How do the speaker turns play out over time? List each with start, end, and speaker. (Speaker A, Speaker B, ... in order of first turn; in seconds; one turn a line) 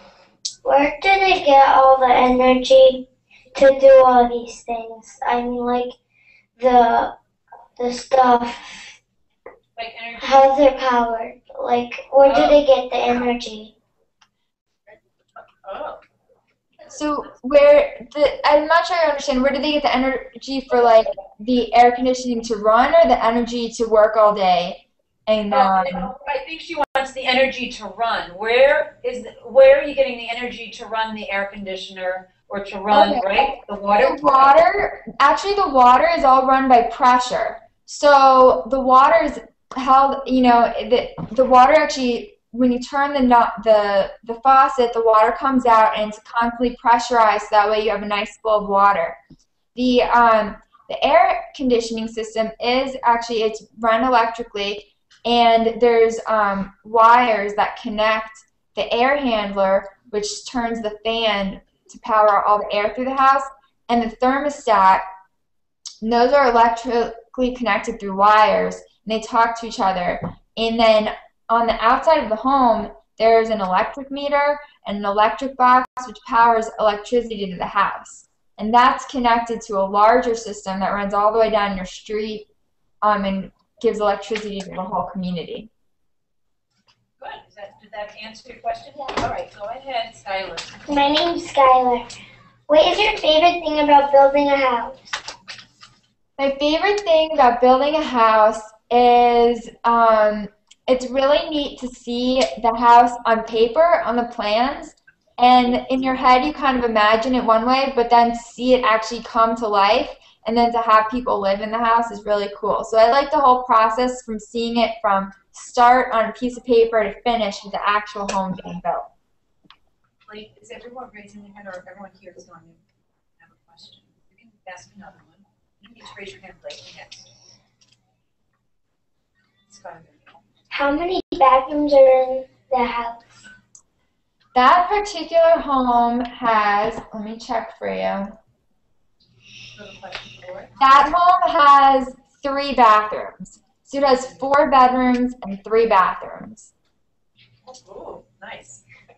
Speaker A: 0.6-6.0
Speaker A: 6.6-7.1
Speaker A: 7.8-8.9
Speaker B: 9.8-10.5
Speaker A: 10.2-13.7
Speaker B: 12.2-12.6
Speaker B: 15.4-16.0
Speaker C: 16.9-26.1
Speaker B: 25.5-34.5
Speaker C: 32.9-49.2
Speaker C: 49.8-65.0
Speaker C: 66.0-82.5
Speaker C: 83.0-85.7
Speaker B: 87.2-90.8
Speaker A: 90.9-92.1
Speaker A: 92.7-95.2
Speaker C: 96.4-119.1
Speaker B: 120.3-122.8
Speaker B: 123.4-127.3
Speaker B: 129.7-130.4
Speaker A: 130.7-133.4
Speaker C: 134.5-138.3
Speaker B: 139.8-140.7
Speaker C: 140.8-146.7
Speaker B: 147.7-148.8